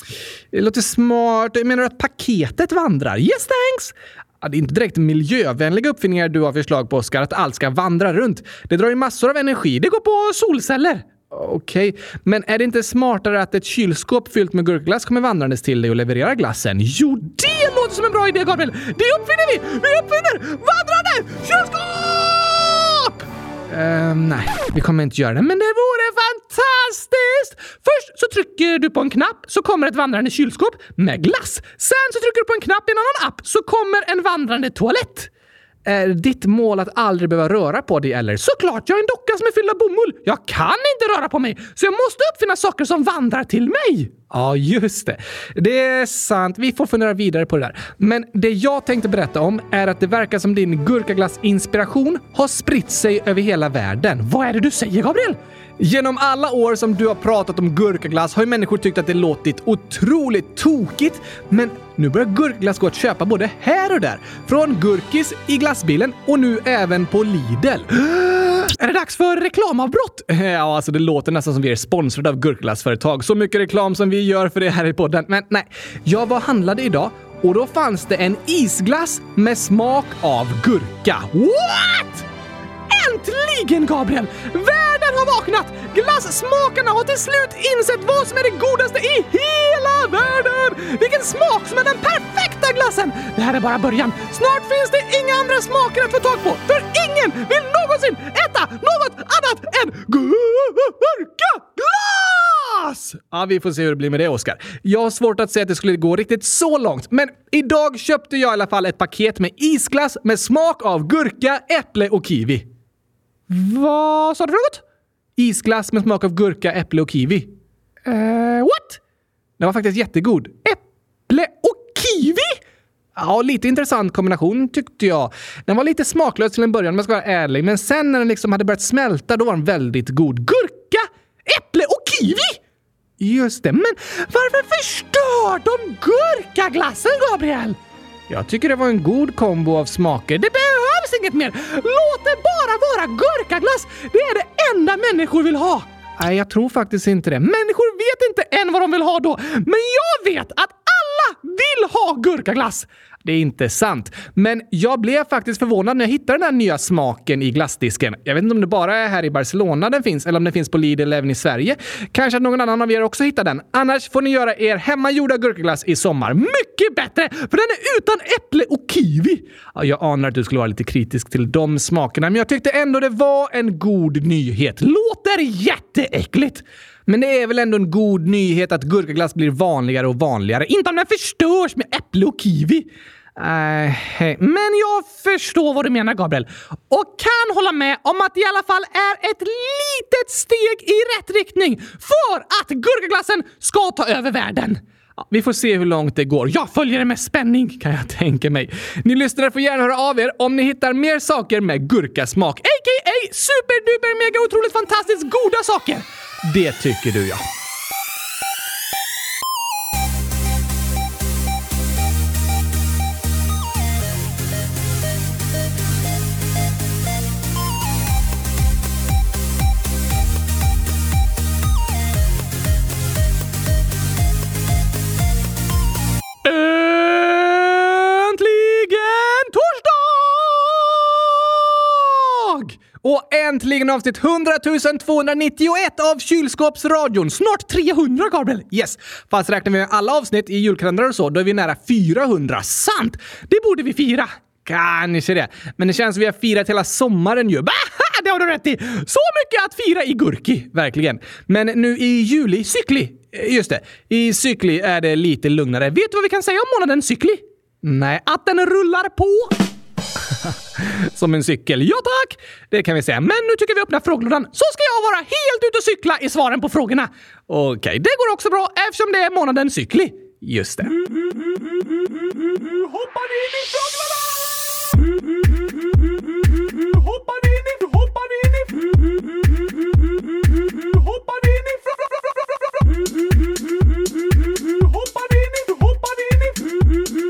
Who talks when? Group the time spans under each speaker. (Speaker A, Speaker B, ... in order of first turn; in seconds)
Speaker A: 0.5-35.3, 35.8-82.2, 82.9-112.6, 113.5-114.8, 115.3-117.5, 118.0-119.0, 119.6-122.6, 123.2-132.6, 133.2-137.8, 138.3-207.4, 226.4-259.6, 260.4-271.0, 272.6-274.3, 276.7-279.0, 280.7-282.2, 284.7-286.6